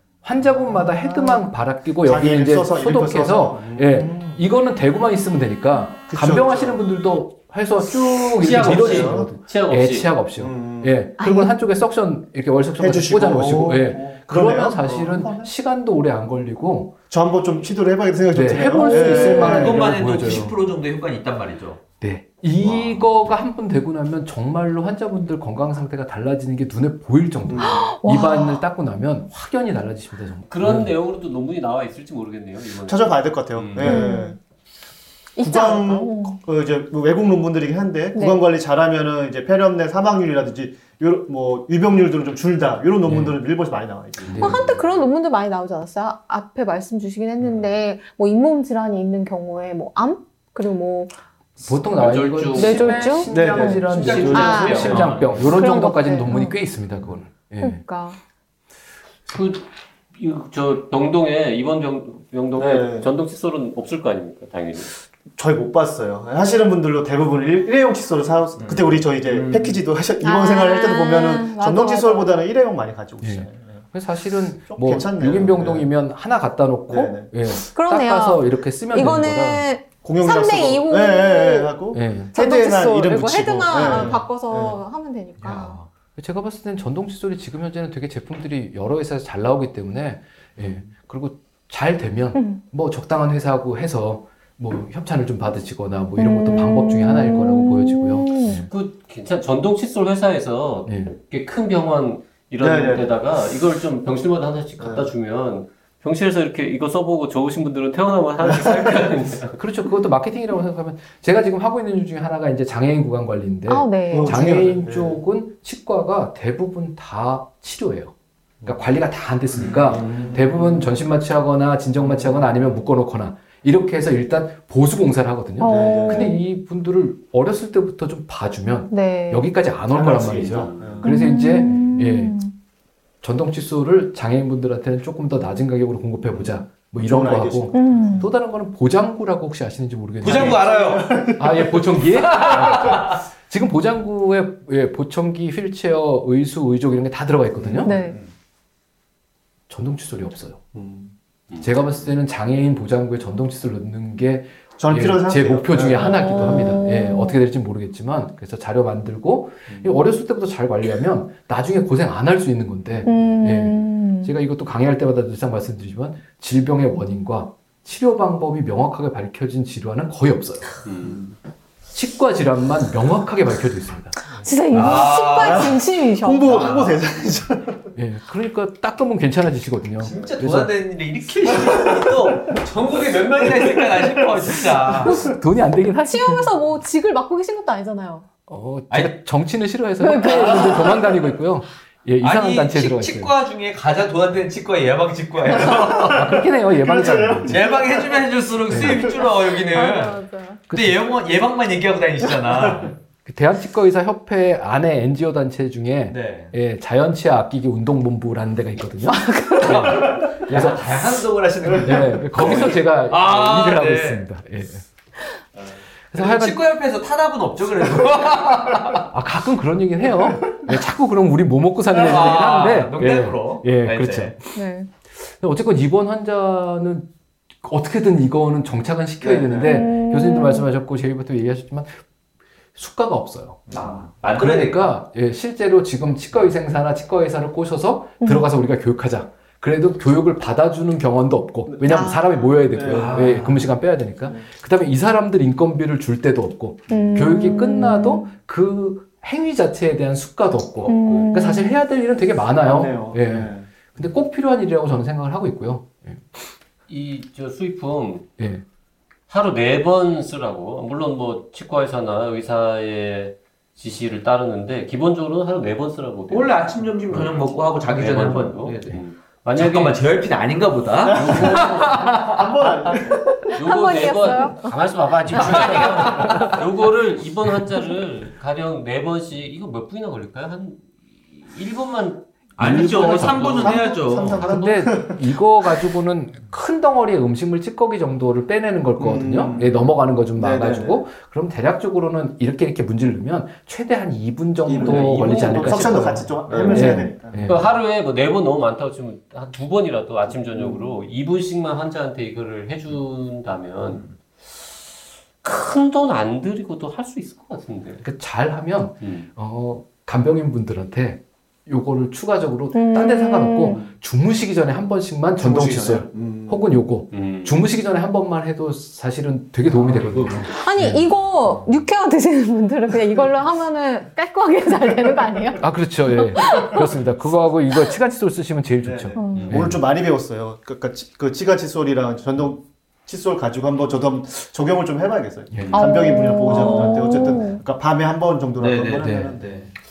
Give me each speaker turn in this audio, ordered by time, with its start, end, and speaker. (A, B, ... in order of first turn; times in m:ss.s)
0:00.2-0:17.0 A
0:00.6-0:01.4 B
0:02.0-0:04.4 B
0:06.1-0:06.8 B
0:08.4-0:10.1 C
0:08.4-0:09.3 B
0:10.4-0:11.0 B
0:11.2-0:11.5 D
0:12.8-0:15.5 B
0:17.1-0:19.9 B
0:18.3-0:20.6 A
0:18.6-0:19.7 D
0:19.4-0:21.8 E
0:22.0-0:30.9 A
0:27.5-0:27.9 B
0:27.6-0:28.6 D
0:30.5-0:34.0 C
0:32.9-0:34.4 B
0:33.8-0:34.4 D
0:35.4-0:36.4 D
0:35.4-0:44.7 B
0:38.2-0:38.4 D
0:43.1-0:43.4 A
0:44.3-0:44.8 A
0:44.4-0:51.1 D
0:51.6-0:57.8 A
0:51.9-0:53.3 C
0:52.5-0:56.6 D
0:53.3-0:54.4 B
0:53.8-0:55.5 E
0:53.9-0:55.2 C
0:57.6-0:58.2 D
0:59.3-1:04.9 C
1:02.6-1:03.1 B
1:05.4-1:13.8 B
1:08.6-1:09.8 E
1:10.2-1:12.4 D
1:13.2-1:19.7 A
1:14.7-1:15.9 B
1:16.9-1:17.3 B
1:17.6-1:21.8 D
1:20.0-1:24.8 B
1:21.9-1:22.4 A
1:22.3-1:25.8 D
1:23.8-1:24.1 A
1:25.4-1:25.9 E
1:26.2-1:38.7 A
1:32.3-1:32.6 D
1:36.2-1:38.6 D
1:38.7-1:49.6 C
1:40.9-1:41.1 A
1:42.6-1:43.1 B
1:44.8-1:45.1 B
1:48.4-1:49.0 B
1:49.5-2:12.4 A
1:53.7-1:54.4 D
1:54.1-1:55.2 B
1:59.6-2:00.9 B
2:02.0-2:02.3 B
2:05.6-2:06.4 D
2:05.6-2:06.4 B
2:08.9-2:09.5 D
2:09.9-2:11.8 B
2:11.0-2:12.5 D
2:13.2-2:27.9 A
2:16.3-2:18.3 B
2:17.7-2:18.3 D
2:20.2-2:21.3 E
2:20.2-2:21.8 B
2:22.3-2:23.2 E
2:27.6-2:27.9 B
2:27.8-2:28.2 D
2:29.7-2:30.6 A
2:30.7-2:31.1 B
2:31.6-2:50.7 A
2:34.8-2:36.8 B
2:36.0-2:37.4 D
2:39.7-2:40.0 B
2:43.0-2:44.3 D
2:50.8-2:51.3 C
2:51.9-2:54.2 A
2:54.4-2:56.7 D
2:54.7-2:55.8 E
2:54.8-2:57.9 B
2:56.4-2:57.0 E
2:58.0-3:00.8 A
3:00.0-3:05.3 E
3:05.0-3:06.5 A
3:05.9-3:08.3 D
3:08.5-3:13.3 A
3:08.9-3:09.2 E
3:10.0-3:11.0 D
3:10.2-3:11.0 E
3:12.2-3:16.5 E
3:16.0-3:17.6 A
3:16.1-3:18.2 B
3:17.5-3:23.0 E
3:18.7-3:19.1 A
3:19.7-3:20.6 D
3:20.7-3:21.1 A
3:23.3-3:30.9 A
3:26.1-3:26.5 E
3:29.1-3:29.8 D
3:29.6-3:34.3 E
3:31.8-3:34.9 A
3:35.6-3:39.1 E
3:36.1-3:36.6 A
3:39.0-3:44.4 A
3:41.9-3:44.4 E
3:44.6-3:44.9 D
3:45.2-3:47.1 A
3:47.6-3:52.0 A
3:49.2-3:49.8 B
3:49.6-3:50.7 D
3:52.8-4:16.3 A
3:53.7-3:54.9 E
4:01.7-4:03.3 B
4:01.8-4:02.3 D
4:02.8-4:03.6 E
4:06.9-4:08.3 D
4:06.9-4:07.2 B
4:10.8-4:11.8 D
4:12.6-4:13.7 B
4:16.9-4:18.3 C
4:18.4-4:18.6 A
4:19.3-4:30.0 C
4:26.3-4:29.0 E
4:29.5-4:32.9 E
4:31.0-4:33.5 B
4:31.1-4:32.0 C
4:33.4-4:34.8 D
4:33.6-4:43.7 C
4:35.3-4:36.1 E
4:42.6-4:44.5 E
4:42.6-4:43.8 A
4:42.6-4:45.3 B
4:44.4-4:57.7 A
4:49.0-4:49.7 B
4:50.4-4:51.0 B
4:54.6-4:57.4 B
4:54.8-5:04.1 C
5:00.6-5:00.9 B
5:05.4-5:08.0 C
5:08.0-5:21.0 A
5:09.0-5:09.3 C
5:12.7-5:13.8 D
5:15.4-5:16.6 B
5:17.1-5:17.6 C
5:20.5-5:26.9 D
5:25.6-5:29.8 A
5:28.8-5:39.6 B
5:29.2-5:29.6 D
5:35.5-5:36.6 A
5:35.7-5:37.6 D
5:38.6-5:39.7 E
5:39.0-5:39.3 A